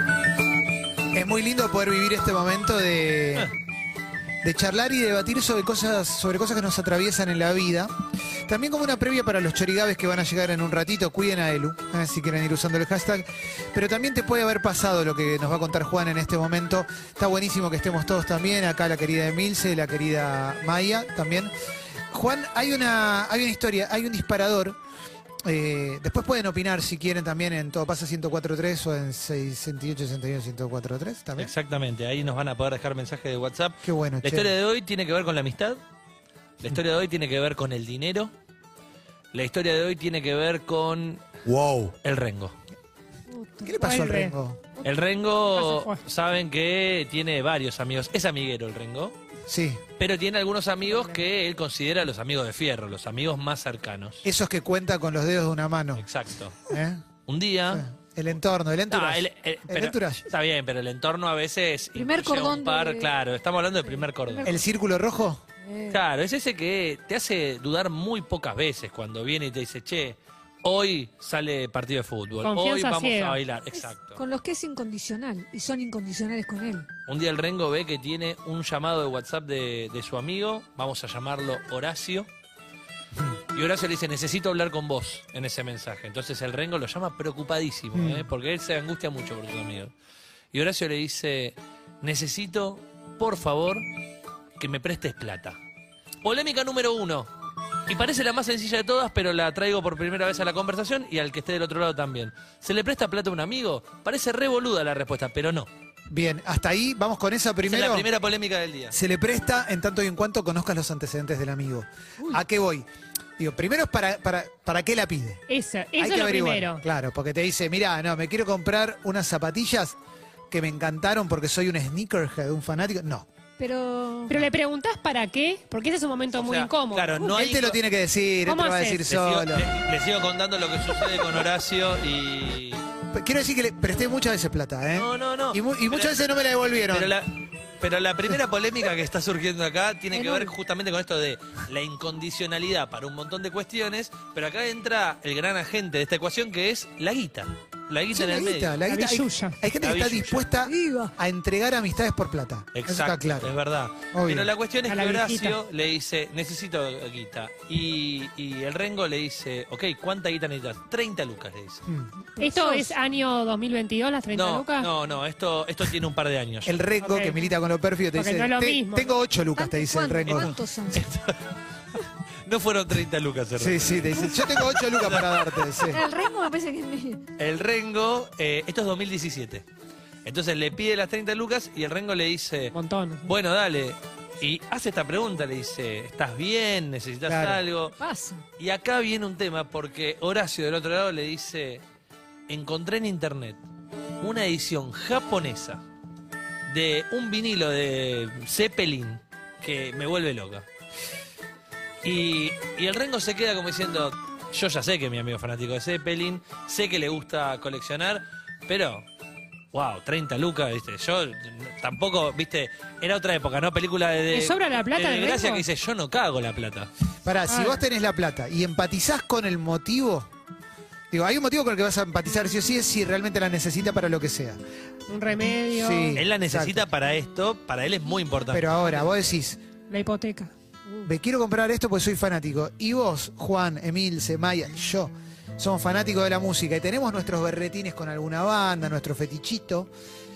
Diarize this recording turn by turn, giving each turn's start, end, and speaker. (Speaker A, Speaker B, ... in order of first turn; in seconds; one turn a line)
Speaker A: 1.1-3.5
Speaker A: 4.4-7.9
Speaker A: 8.5-21.5
Speaker A: 22.1-24.8
Speaker A: 25.5-31.5
Speaker B: 31.4-35.8
Speaker A: 33.8-34.5
Speaker B: 36.6-38.3
Speaker B: 39.3-41.2
Speaker A: 41.5-42.0
Speaker B: 42.0-42.5
Speaker C: 43.3-43.8
Speaker A: 43.7-44.6
Speaker D: 43.8-46.0
Speaker B: 44.9-49.2
Speaker A: 49.5-49.8
Speaker B: 50.0-54.3
Speaker D: 50.9-51.2
Speaker A: 54.2-56.1
Speaker B: 56.0-56.6
Speaker A: 56.7-57.0
Speaker B: 57.3-57.8
Speaker A: 57.7-60.3
Speaker B: 58.9-64.5
Speaker C: 62.0-63.1
Speaker C: 63.8-64.6
Speaker A: 64.5-65.4
Speaker C: 65.6-66.0
Speaker B: 65.9-74.2
Speaker D: 72.4-73.4
Speaker C: 73.8-76.9
Speaker B: 77.1-82.3
Speaker B: 83.5-89.9
Speaker A: 87.9-88.3
Speaker B: 90.5-93.9
Speaker B: 94.6-95.6
Speaker B: 96.2-97.3
Speaker B: 97.9-105.7
Speaker A: 106.1-108.1
Speaker B: 107.7-108.9
Speaker A: 108.9-112.9
Speaker A: 113.4-115.4
Speaker D: 115.5-116.8
Speaker A: 116.0-120.0
Speaker A: 120.5-123.3
Speaker C: 123.6-124.4
Speaker D: 124.3-127.2
Speaker B: 126.3-127.8
Speaker A: 127.2-129.7
Speaker D: 128.4-129.1
Speaker B: 129.1-132.8
Speaker A: 133.1-137.1
Speaker B: 134.9-136.2
Speaker B: 136.9-148.8
Speaker C: 140.1-140.5
Speaker A: 148.1-153.5
Speaker D: 148.9-149.6
Speaker B: 149.8-150.5
Speaker C: 150.6-151.1
Speaker B: 152.7-161.8
Speaker A: 154.1-154.5
Speaker D: 154.8-155.6
Speaker A: 161.9-162.1
Speaker C: 162.3-162.9
Speaker D: 162.4-164.9
Speaker B: 164.3-166.8
Speaker A: 166.7-170.6
Speaker D: 167.0-167.5
Speaker D: 168.1-169.1
Speaker C: 169.6-171.0
Speaker B: 170.3-171.4
Speaker B: 172.4-175.6
Speaker A: 173.6-176.0
Speaker C: 175.8-177.2
Speaker B: 177.4-179.7
Speaker B: 180.2-182.8
Speaker D: 182.7-183.3
Speaker B: 183.3-188.0
Speaker A: 187.3-187.6
Speaker C: 188.0-188.4
Speaker B: 188.6-191.8
Speaker B: 192.5-193.6
Speaker B: 194.2-195.8
Speaker B: 196.7-200.7
Speaker B: 202.0-209.1
Speaker B: 209.7-216.9
Speaker D: 214.3-215.7
Speaker A: 217.2-220.3
Speaker D: 217.5-217.8
Speaker A: 221.1-224.6
Speaker D: 225.1-226.1
Speaker A: 225.7-226.8
Speaker B: 226.2-228.8
Speaker A: 228.5-229.6
Speaker D: 229.9-230.5
Speaker A: 231.0-239.9